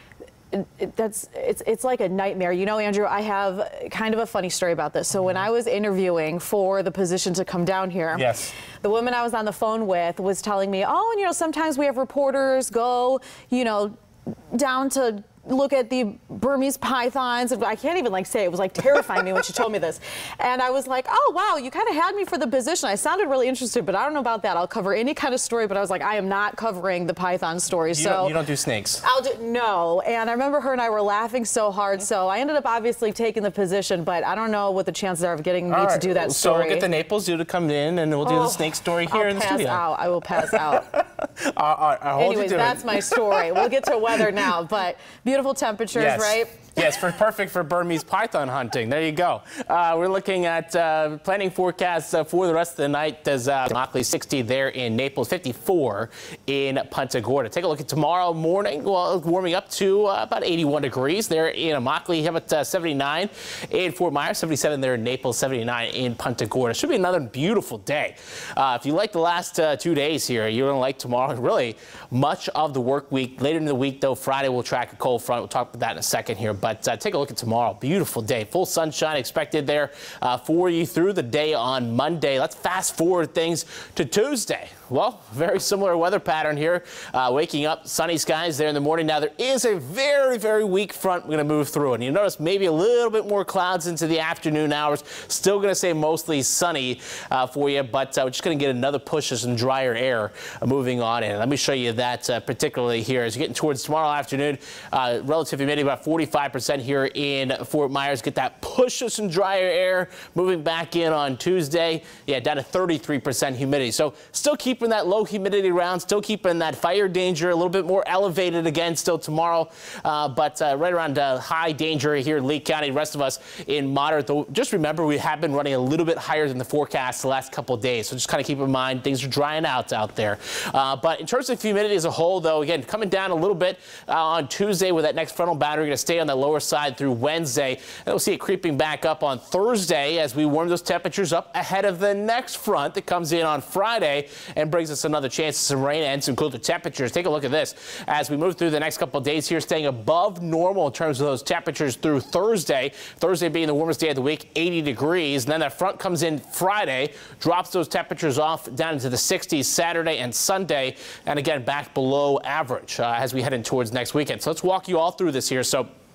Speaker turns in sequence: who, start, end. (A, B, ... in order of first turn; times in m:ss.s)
0:00.5-0:13.9 A
0:08.1-0:08.5 B
0:14.5-0:28.3 A
0:27.9-0:29.0 B
0:29.0-0:36.9 A
0:35.7-0:39.8 B
0:38.2-0:40.9 A
0:40.4-0:44.5 B
0:42.2-0:46.7 A
0:45.9-2:45.9 B